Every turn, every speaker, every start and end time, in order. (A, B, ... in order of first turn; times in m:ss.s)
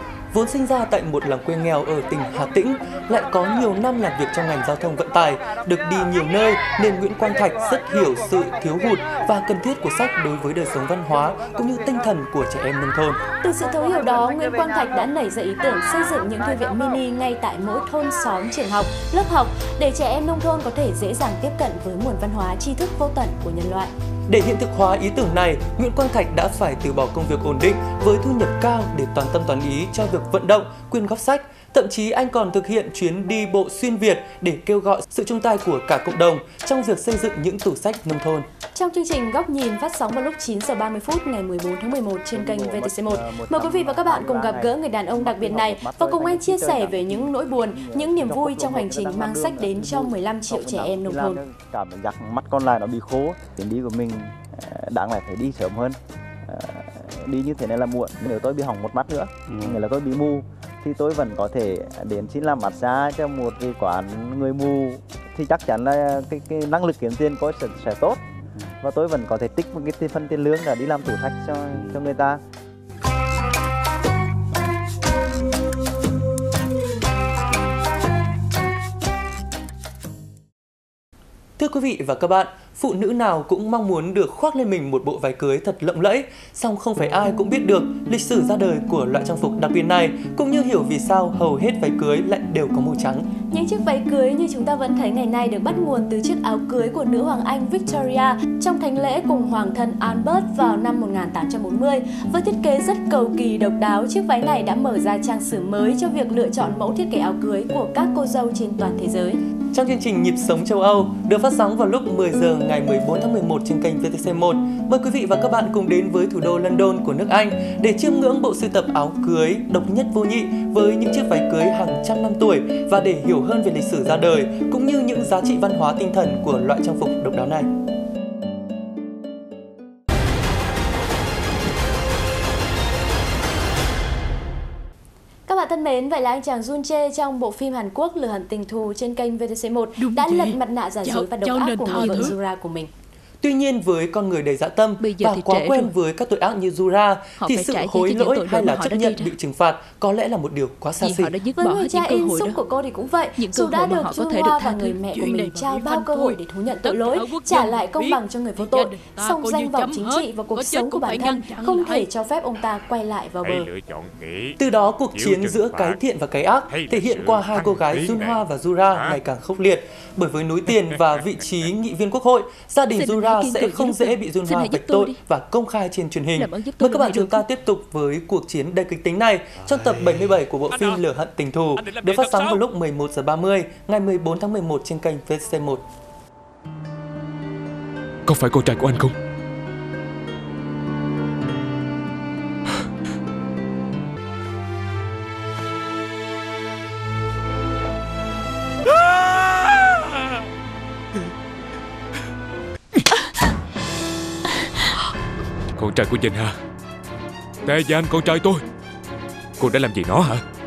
0:00.3-0:13.2 A
0:13.4-0:23.9 B
0:24.3-0:38.5 A
0:38.7-0:51.4 B
0:42.3-1:08.2 C
1:08.8-1:12.4 C
1:21.6-1:33.3 A
1:33.5-1:49.4 B
1:49.7-2:07.7 A
2:15.5-2:22.9 B
2:20.0-2:22.4 D
2:23.4-2:31.4 A
2:25.0-2:25.9 D
2:27.4-2:29.4 D
2:31.0-2:32.6 D
2:31.6-2:43.7 B
2:33.4-2:42.1 D
2:43.4-2:44.6 E
2:44.6-3:05.8 A
2:45.1-2:46.0 E
2:46.7-2:49.2 E
2:50.9-2:51.4 E
2:52.9-2:55.2 D
2:56.3-2:57.4 D
3:00.7-3:01.0 E
3:01.8-3:02.6 E
3:08.2-3:09.1 E
3:25.8-3:26.6 E
3:27.6-3:28.6 E
3:29.6-3:30.4 E